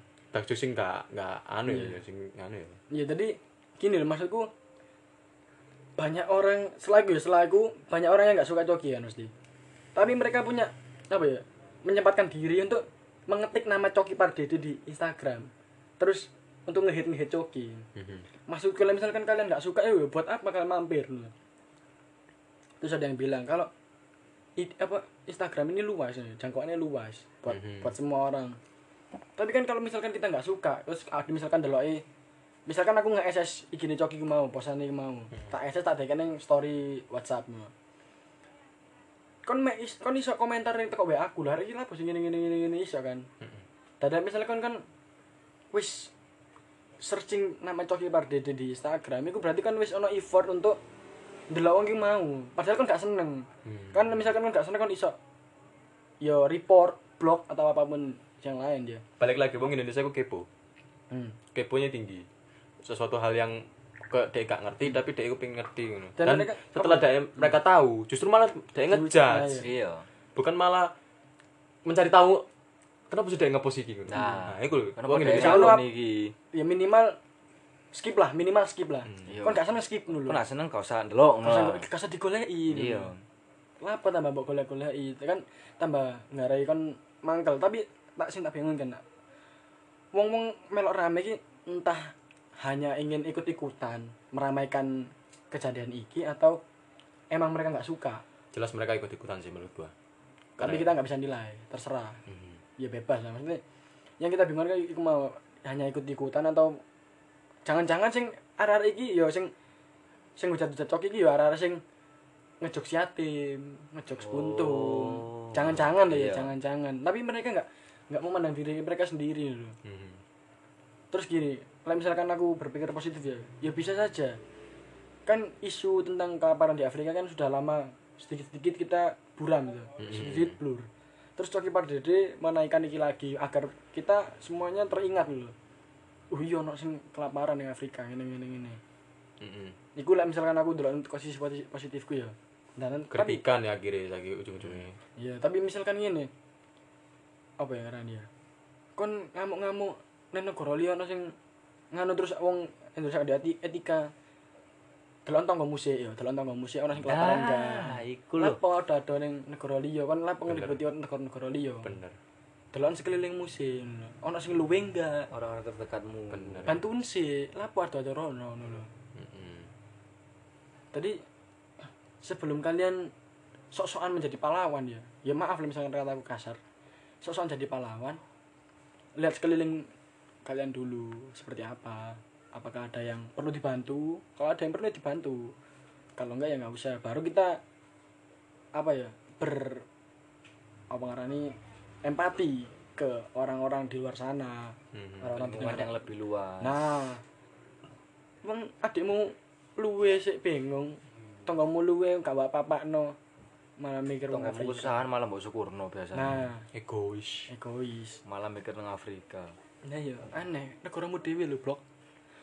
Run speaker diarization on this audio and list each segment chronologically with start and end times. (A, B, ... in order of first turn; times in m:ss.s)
0:00.3-0:02.8 A
0:01.7-0:02.0 B
0:02.9-0:04.5 B
0:06.0-0:09.3 B
0:09.9-0:17.8 B
0:18.0-0:18.2 A
0:18.5-0:21.3 B
0:22.8-0:23.7 B
0:24.6-0:28.6 B
0:27.5-0:27.9 A
0:29.4-0:32.0 B
0:32.7-0:37.7 B
0:39.4-0:43.3 B
0:44.0-0:44.8 B
0:45.7-0:46.1 B
0:47.0-0:50.8 B
0:51.5-0:55.1 B
0:53.6-0:54.2 A
0:56.2-0:59.0 B
0:59.2-1:00.5 A
1:01.1-1:01.4 B
1:01.5-1:02.2 A
1:02.8-1:09.7 A
1:06.2-1:07.5 B
1:08.9-1:09.7 B
1:09.6-1:10.0 C
1:10.4-1:10.9 A
1:11.8-1:12.4 A
1:13.1-1:15.8 A
1:14.1-1:16.3 C
1:15.2-1:15.9 B
1:16.5-1:17.2 B
1:17.9-1:20.4 B
1:19.3-1:21.8 C
1:21.4-1:23.1 B
1:22.7-1:23.2 C
1:23.8-1:29.0 B
1:30.1-1:36.6 B
1:37.3-1:38.2 B
1:38.5-1:39.9 A
1:40.6-1:40.9 A
1:40.6-1:42.2 B
1:42.3-1:42.6 A
1:42.8-1:43.6 B
1:44.2-1:46.8 B
1:47.6-1:49.5 B
1:50.4-1:51.8 B
1:52.6-1:59.8 B
1:54.2-1:56.5 C
1:59.8-2:00.2 A
2:01.1-2:04.4 B
2:05.2-2:15.5 B
2:10.0-2:10.6 A
2:16.3-2:18.8 B
2:19.4-2:19.8 A
2:20.0-2:23.4 B
2:23.1-2:25.0 A
2:25.2-2:26.3 B
2:27.6-2:28.3 B
2:29.0-2:31.3 B
2:31.9-2:34.1 B
2:35.2-2:41.9 B
2:37.0-2:38.6 C
2:40.5-2:40.8 A
2:41.8-2:42.2 A
2:42.7-2:45.3 B
2:45.3-2:46.7 C
2:46.3-2:46.8 A
2:46.7-2:48.9 B
2:49.1-2:49.7 A
2:50.9-2:51.2 B
2:52.2-2:53.1 B
2:53.7-2:56.6 B
2:57.2-2:58.2 B
2:59.2-2:59.9 B
3:00.4-3:05.5 B
3:06.2-3:07.6 B
3:08.7-3:09.8 B
3:10.9-3:15.9 B
3:14.9-3:15.4 A
3:15.3-3:16.8 C
3:16.6-3:17.2 B
3:18.4-3:23.2 B
3:23.8-3:25.0 B
3:24.3-3:26.5 C
3:26.1-3:26.6 B
3:26.7-3:27.5 A
3:27.5-3:28.2 B
3:28.2-3:29.5 C
3:29.8-3:31.8 B